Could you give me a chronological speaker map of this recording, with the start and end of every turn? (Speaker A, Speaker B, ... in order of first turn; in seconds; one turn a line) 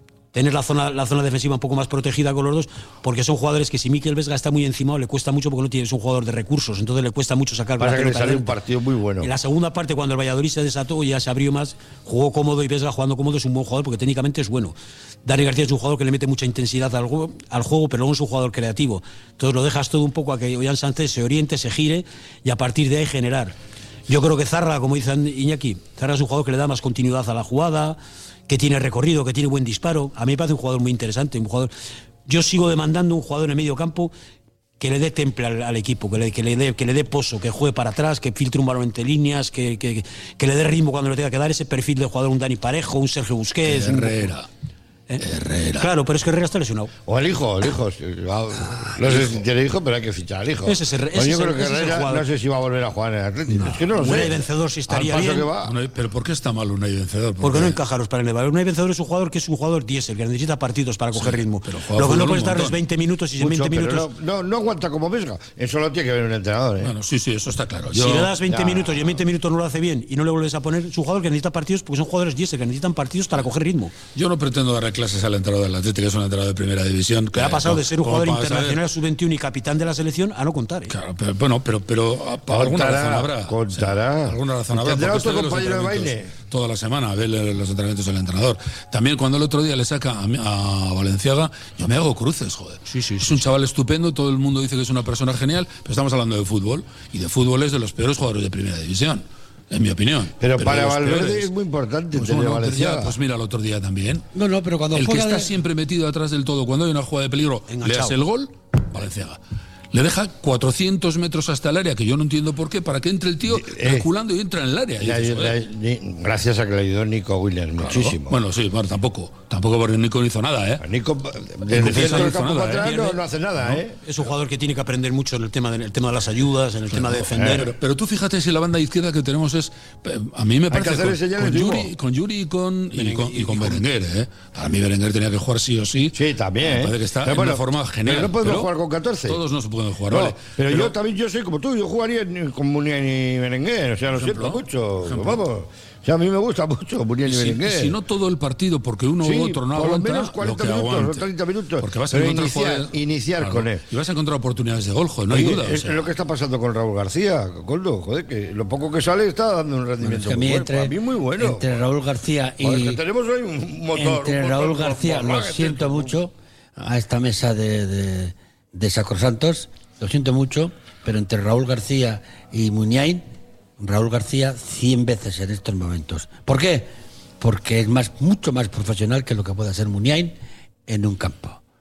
Speaker A: 0.3-8.6
Speaker B: 7.8-9.3
Speaker A: 9.2-23.5
Speaker A: 24.1-31.7
Speaker A: 32.3-34.1
Speaker A: 34.8-44.3
Speaker C: 43.6-44.5
Speaker C: 45.2-45.9
Speaker A: 45.8-46.9
Speaker B: 47.1-55.8
Speaker A: 50.6-52.2
Speaker A: 53.5-55.5
Speaker C: 55.6-57.8
Speaker A: 57.4-64.1
Speaker C: 61.1-62.8
Speaker B: 63.4-66.9
Speaker C: 66.8-68.3
Speaker A: 67.9-73.9
Speaker B: 68.5-69.2
Speaker C: 74.1-78.8
Speaker A: 77.3-80.9
Speaker C: 80.9-101.5
Speaker B: 82.5-86.3
Speaker A: 92.9-93.3
Speaker B: 100.4-103.2
Speaker C: 102.1-104.2
Speaker D: 104.3-105.5
Speaker C: 104.9-109.4
Speaker A: 107.7-108.2
Speaker C: 109.9-115.6
Speaker B: 113.5-114.1
Speaker B: 115.0-118.4
Speaker C: 117.8-120.8
Speaker B: 120.8-124.0
Speaker C: 121.7-123.8
Speaker A: 121.7-123.2
Speaker A: 124.0-127.7
Speaker C: 126.9-138.7
Speaker B: 127.3-127.7
Speaker B: 130.7-131.9
Speaker A: 132.9-133.8
Speaker B: 136.1-139.4
Speaker C: 139.2-140.9
Speaker B: 140.1-148.0
Speaker C: 144.1-145.4
Speaker C: 147.2-151.2
Speaker B: 149.2-153.8
Speaker C: 151.8-156.0
Speaker B: 155.3-161.8
Speaker D: 160.0-163.0
Speaker B: 162.6-166.2
Speaker D: 163.9-173.2
Speaker D: 173.8-176.9
Speaker D: 177.4-180.3
Speaker D: 180.9-181.6